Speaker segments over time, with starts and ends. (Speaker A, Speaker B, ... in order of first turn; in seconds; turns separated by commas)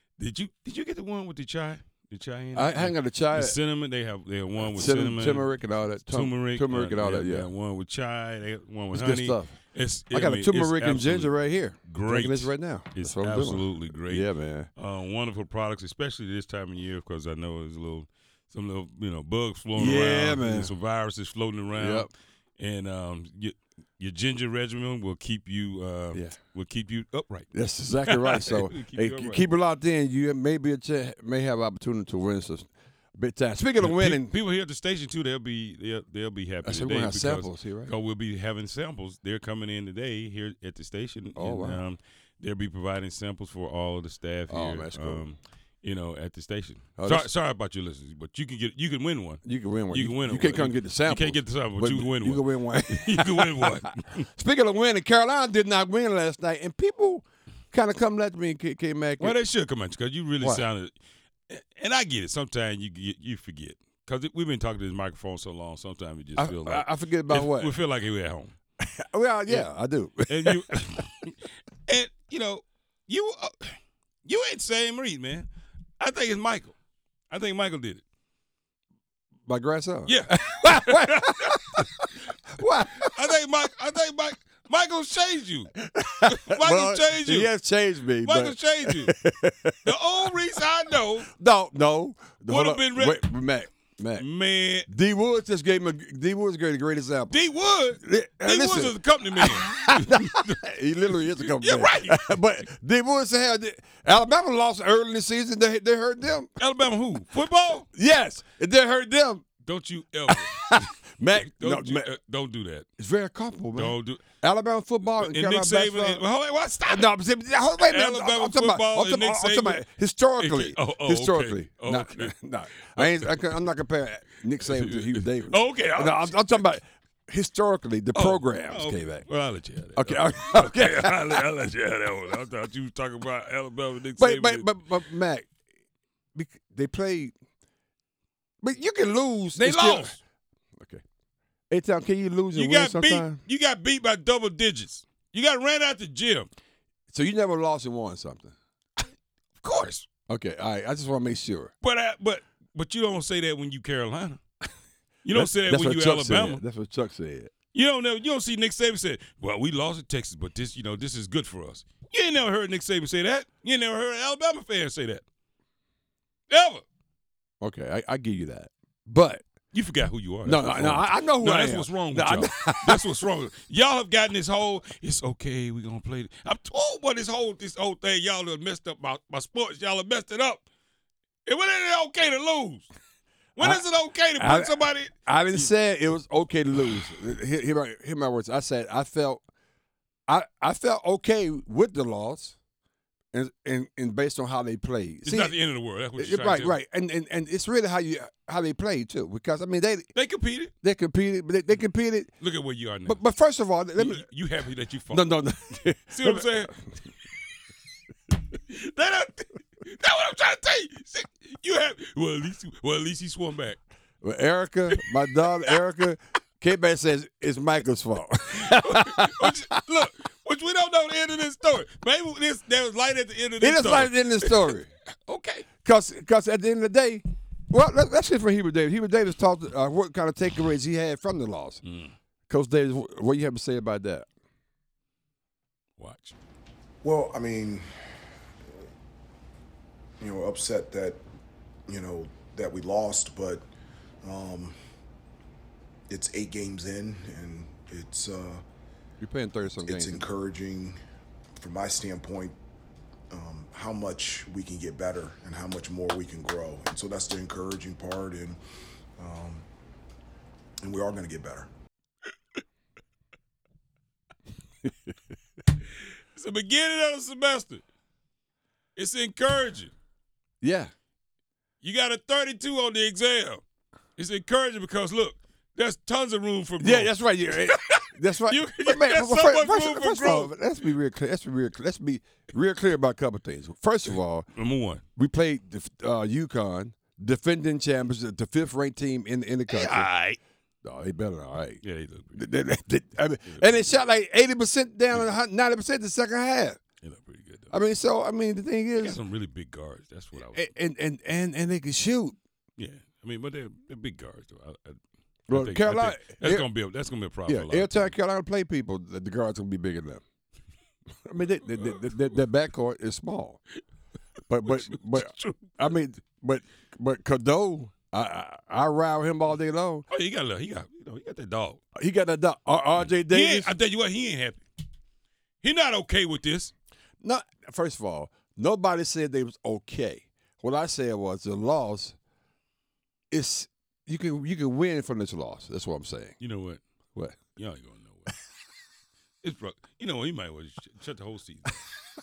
Speaker A: 0.2-27.5, Speaker B: 2.5-3.6, Speaker B: 4.6-7.5, Speaker B: 8.9-9.6, Speaker B: 10.1-14.7, Speaker B: 19.8-20.7, Speaker B: 21.8-22.1, Speaker B: 27.5-34.3, Speaker A: 28.1-29.5, Speaker A: 33.8-54.2, Speaker B: 36.6-37.9, Speaker B: 41.4-41.8, Speaker B: 44.5-45.3, Speaker B: 47.0-47.3, Speaker B: 49.5-59.4, Speaker A: 59.2-61.0, Speaker B: 60.4-60.7, Speaker A: 61.5-68.5, Speaker B: 66.4-67.8, Speaker B: 68.8-70.7, Speaker A: 70.3-75.5, Speaker A: 76.0-76.8, Speaker A: 77.3-78.0, Speaker B: 79.5-83.1, Speaker A: 80.1-81.9, Speaker A: 83.0-87.5, Speaker B: 85.8-89.8, Speaker A: 88.2-89.1, Speaker A: 89.8-91.3, Speaker B: 91.3-94.3, Speaker A: 92.5-93.3, Speaker A: 94.2-94.9, Speaker B: 94.9-97.3, Speaker A: 97.3-100.5, Speaker B: 98.0-106.5, Speaker A: 101.4-102.4, Speaker A: 106.6-107.9, Speaker B: 108.0-109.5, Speaker A: 109.6-112.9, Speaker B: 110.3-112.1, Speaker B: 113.0-116.2, Speaker A: 113.8-114.2, Speaker A: 115.1-117.1, Speaker B: 116.9-129.3, Speaker A: 117.8-119.8, Speaker A: 120.4-122.3, Speaker A: 123.0-123.4, Speaker A: 124.6-126.5, Speaker A: 128.2-134.8, Speaker B: 129.9-131.5, Speaker B: 134.2-135.5, Speaker B: 136.3-137.3, Speaker B: 138.6-140.2, Speaker A: 139.6-140.2, Speaker B: 141.7-143.4, Speaker A: 142.6-146.5, Speaker B: 147.1-148.6, Speaker A: 149.6-150.1, Speaker B: 150.3-151.7, Speaker A: 151.8-154.4, Speaker A: 155.2-156.6, Speaker B: 155.3-157.5, Speaker A: 157.7-165.2, Speaker A: 166.5-166.8, Speaker B: 167.6-169.4, Speaker A: 169.7-180.7, Speaker B: 170.4-173.1, Speaker A: 181.5-182.9, Speaker A: 183.6-185.7, Speaker B: 183.6-183.8, Speaker B: 184.4-189.4, Speaker B: 190.3-192.6, Speaker B: 193.3-195.6, Speaker A: 195.2-196.8, Speaker B: 196.2-200.1, Speaker A: 200.2-200.7, Speaker B: 200.8-202.3, Speaker A: 202.4-203.2, Speaker B: 203.1-204.3, Speaker A: 204.0-205.5, Speaker B: 205.1-206.5, Speaker A: 206.1-206.8, Speaker A: 208.7-213.8, Speaker B: 214.2-219.5, Speaker A: 218.5-224.7, Speaker B: 223.6-224.9, Speaker A: 225.3-225.7, Speaker B: 225.8-231.8, Speaker A: 231.8-232.1, Speaker B: 232.5-234.3, Speaker A: 236.0-236.4, Speaker C: 237.0-238.1, Speaker C: 240.2-241.2, Speaker C: 241.9-243.7, Speaker C: 244.2-244.8, Speaker C: 246.1-248.6, Speaker B: 249.2-250.3, Speaker C: 249.8-251.0, Speaker C: 251.6-252.6, Speaker C: 253.3-258.6, Speaker C: 259.2-259.6, Speaker C: 260.8-261.7, Speaker A: 266.3-267.8, Speaker A: 269.0-269.9, Speaker B: 270.6-270.9, Speaker A: 271.8-273.6, Speaker A: 274.2-280.6, Speaker B: 276.8-284.5, Speaker A: 284.6-285.0, Speaker B: 285.2-290.1, Speaker A: 289.7-290.4, Speaker B: 290.8-291.8, Speaker A: 291.8-292.4, Speaker B: 292.3-296.8, Speaker A: 293.5-293.9, Speaker A: 297.0-297.7, Speaker B: 297.7-299.2, Speaker A: 299.0-300.7, Speaker B: 300.5-302.4, Speaker A: 302.8-308.1, Speaker B: 305.5-306.7, Speaker B: 307.5-310.2, Speaker B: 311.2-313.6, Speaker B: 314.5-320.1, Speaker A: 314.6-316.0, Speaker A: 320.1-321.8, Speaker B: 322.0-323.7, Speaker A: 323.0-324.6, Speaker A: 325.6-326.7, Speaker B: 327.2-332.2, Speaker B: 333.3-336.4, Speaker A: 336.4-336.8, Speaker B: 337.2-337.4, Speaker A: 337.4-338.3, Speaker A: 339.4-341.8